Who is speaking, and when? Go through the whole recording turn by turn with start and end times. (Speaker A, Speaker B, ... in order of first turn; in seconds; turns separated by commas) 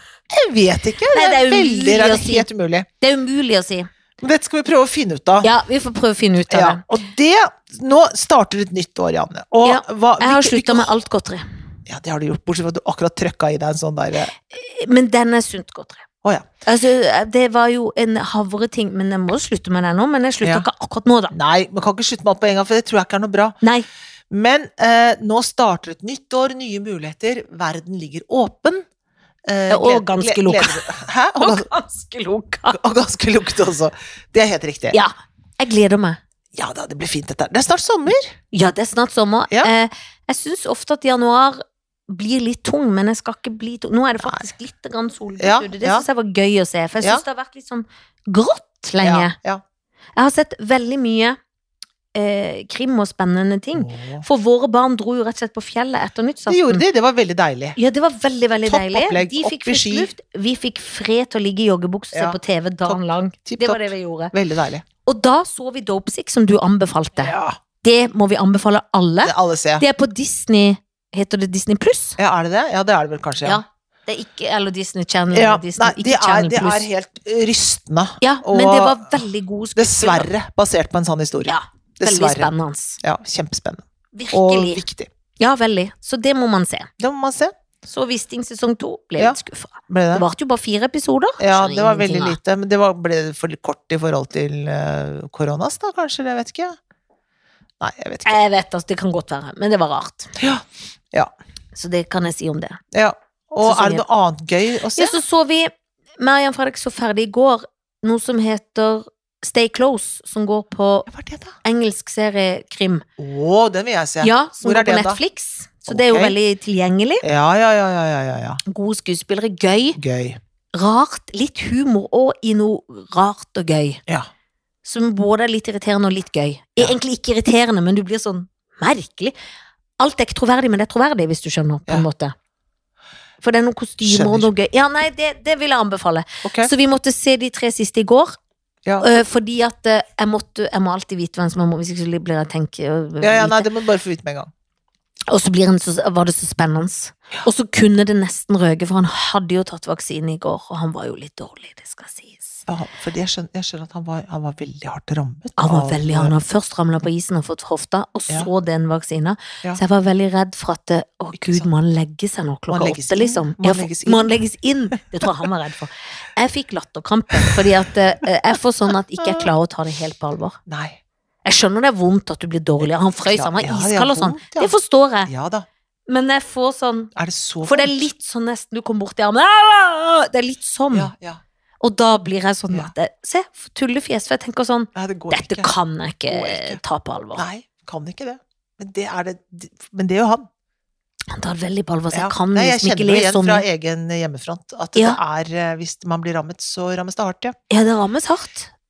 Speaker A: 0.3-2.9, Speaker B: 1.1-2.5, Speaker B: 3.0-3.9, Speaker A: 4.2-5.5, Speaker B: 5.4-6.8, Speaker A: 6.5-10.9, Speaker B: 9.6-11.4, Speaker A: 11.8-14.3, Speaker B: 14.5-16.0, Speaker A: 16.2-16.5, Speaker B: 16.6-21.3, Speaker A: 20.4-20.7, Speaker A: 21.3-23.6, Speaker B: 23.6-23.9, Speaker A: 24.3-28.8, Speaker A: 29.5-31.7, Speaker B: 29.7-30.9, Speaker B: 31.4-32.8, Speaker A: 32.7-35.0, Speaker B: 34.9-36.2, Speaker A: 36.5-38.3, Speaker B: 38.5-49.3, Speaker A: 44.2-44.5, Speaker A: 45.4-46.1, Speaker A: 47.0-47.2, Speaker A: 49.0-49.6, Speaker B: 50.2-51.4, Speaker B: 52.1-56.8, Speaker A: 53.7-54.2, Speaker A: 56.5-57.8, Speaker B: 57.8-64.3, Speaker A: 58.6-60.1, Speaker A: 62.1-64.8, Speaker B: 65.0-72.2, Speaker A: 67.2-67.6, Speaker A: 69.2-69.8, Speaker A: 72.2-73.6, Speaker B: 73.4-76.9, Speaker A: 75.3-79.2, Speaker B: 78.2-80.3, Speaker A: 79.8-85.1, Speaker B: 81.5-83.0, Speaker B: 84.1-84.8, Speaker B: 85.4-86.9, Speaker A: 87.0-87.5, Speaker B: 87.8-92.4, Speaker A: 89.2-90.2, Speaker A: 91.4-96.8, Speaker A: 97.8-98.3, Speaker B: 98.2-100.3, Speaker A: 100.4-101.3, Speaker B: 101.7-102.8, Speaker A: 102.9-105.2, Speaker B: 103.6-104.0, Speaker B: 105.0-111.1, Speaker A: 111.1-111.5, Speaker B: 111.6-113.0, Speaker A: 113.2-115.2, Speaker B: 114.2-117.2, Speaker A: 115.9-116.4, Speaker A: 117.2-118.6, Speaker B: 118.7-120.0, Speaker A: 119.9-120.4, Speaker B: 120.7-124.0, Speaker B: 124.8-129.3, Speaker B: 130.0-132.3, Speaker B: 133.4-138.3, Speaker A: 134.0-134.5, Speaker A: 136.4-136.7, Speaker B: 139.0-143.7, Speaker A: 143.2-144.5, Speaker B: 145.3-152.6, Speaker A: 152.7-156.3, Speaker B: 155.6-170.6, Speaker A: 161.3-161.7, Speaker A: 162.7-164.3, Speaker A: 169.2-169.5, Speaker A: 170.7-171.0, Speaker B: 171.4-175.3, Speaker A: 173.2-174.7, Speaker A: 175.2-175.7, Speaker B: 176.1-177.1, Speaker A: 177.1-178.0, Speaker B: 177.6-181.1, Speaker A: 180.9-181.4, Speaker B: 181.8-187.4, Speaker A: 184.9-185.7, Speaker A: 186.3-186.8, Speaker A: 187.3-190.5, Speaker B: 191.3-193.6, Speaker A: 192.1-197.5, Speaker B: 197.7-198.7